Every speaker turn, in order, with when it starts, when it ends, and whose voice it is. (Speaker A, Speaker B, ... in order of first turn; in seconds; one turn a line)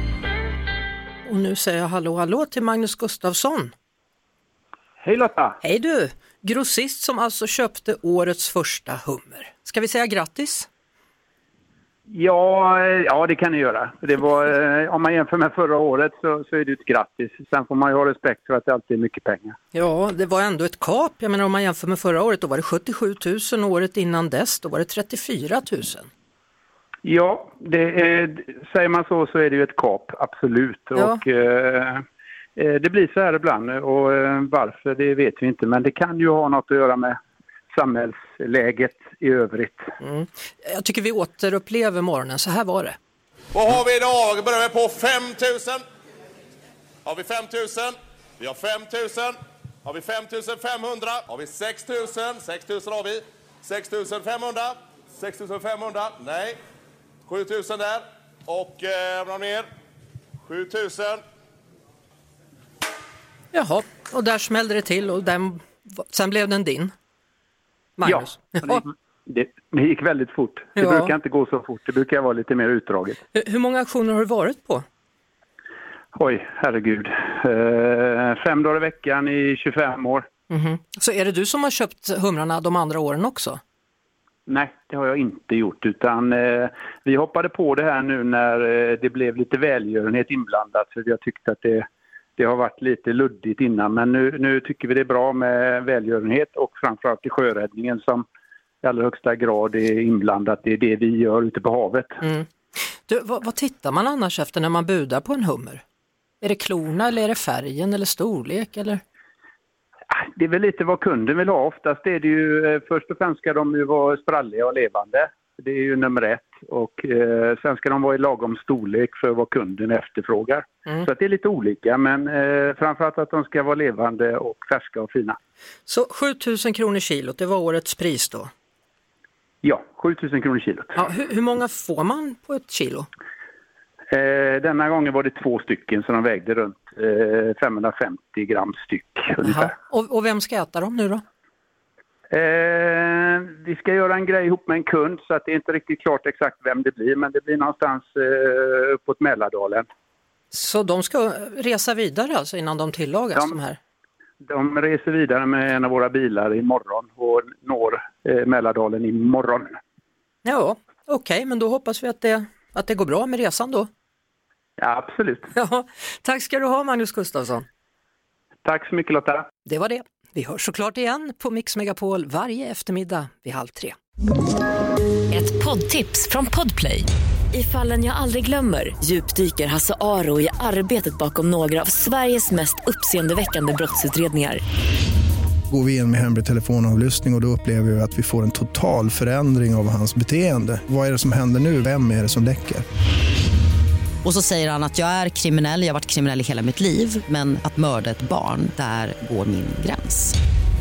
Speaker A: 1.2-3.7
Speaker B: 5.0-5.6
Speaker A: 5.6-10.7
Speaker B: 12.1-19.6
Speaker A: 19.7-26.1
Speaker B: 27.0-32.0
Speaker B: 32.6-37.2
Speaker B: 37.7-39.9
Speaker A: 40.0-43.0
Speaker C: 43.5-45.8
Speaker C: 47.0-56.6
Speaker C: 57.3-59.6
Speaker C: 60.5-61.2
Speaker A: 63.5-66.9
Speaker A: 68.0-68.8
Speaker B: 68.0-73.2
Speaker A: 70.8-71.1
Speaker A: 73.3-74.8
Speaker B: 76.2-80.3
Speaker A: 80.5-83.6
Speaker B: 84.5-91.8
Speaker B: 92.4-98.2
Speaker B: 98.8-102.2
Speaker A: 102.2-105.8
Speaker A: 106.4-109.0
Speaker B: 110.1-125.4
Speaker A: 125.9-128.5
Speaker B: 129.6-131.0
Speaker A: 131.0-133.1
Speaker B: 134.1-139.7
Speaker A: 139.4-141.2
Speaker B: 142.3-149.8
Speaker A: 150.5-153.8
Speaker B: 154.4-159.8
Speaker A: 160.4-163.9
Speaker B: 164.8-165.5
Speaker A: 165.5-167.7
Speaker B: 168.6-169.5
Speaker A: 169.7-174.0
Speaker D: 175.3-184.6
Speaker E: 185.7-192.8
Speaker F: 194.2-200.3